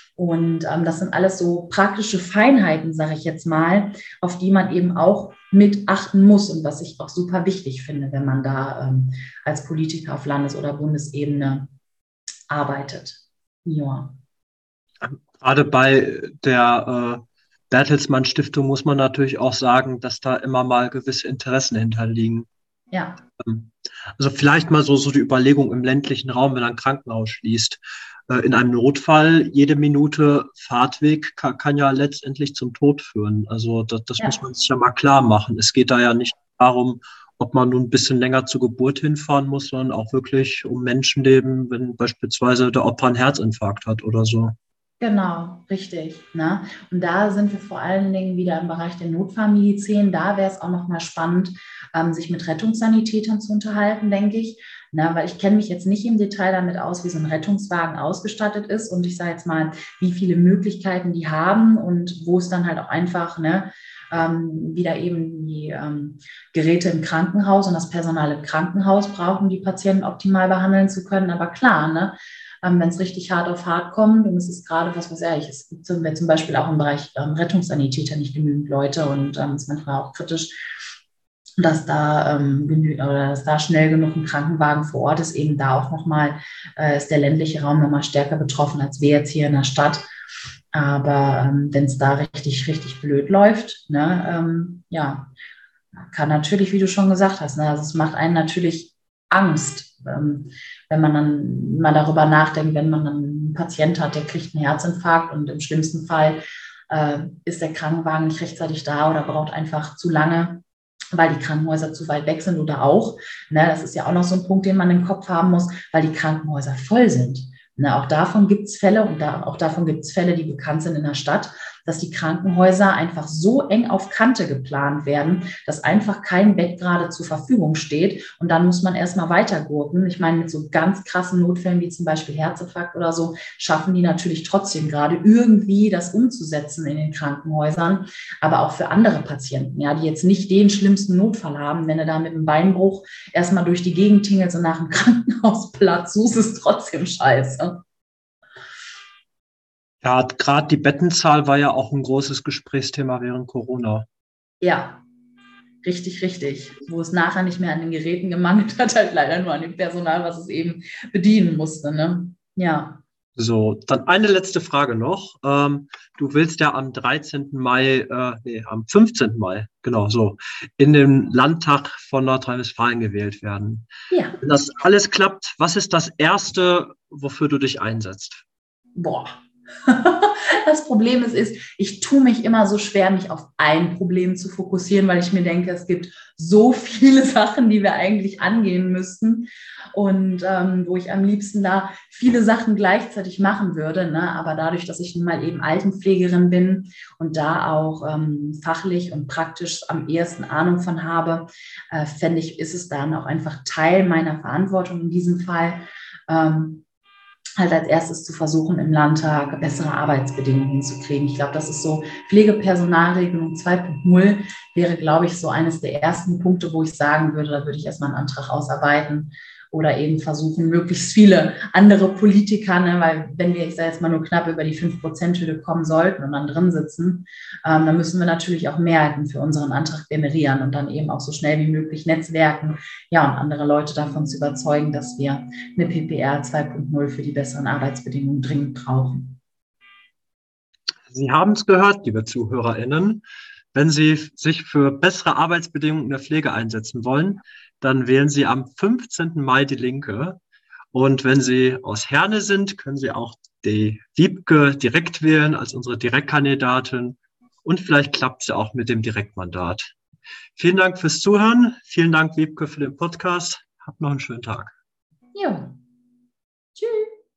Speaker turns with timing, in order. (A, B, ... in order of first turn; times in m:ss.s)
0:00.2-0:11.7 A
0:12.5-0:14.2 A
0:15.0-0:22.5 B
0:22.9-0:23.2 A
0:23.4-0:44.5 B
0:45.0-1:20.6 A
1:21.6-1:30.1 A
1:30.7-1:35.3 A
1:36.0-1:50.6 A
1:51.1-2:27.8 A
2:30.0-2:34.0 B
2:34.6-2:35.0 A
2:35.8-2:43.0 A
2:43.4-2:53.9 B
2:54.1-2:54.4 A
2:54.4-2:58.4 B
2:59.0-3:26.8 A
3:27.6-3:59.4 A
4:01.1-4:03.2 B
4:03.7-4:10.4 B
4:10.9-4:19.9 B
4:20.6-4:24.7 B
4:25.3-4:25.7 A
4:26.8-4:27.1 A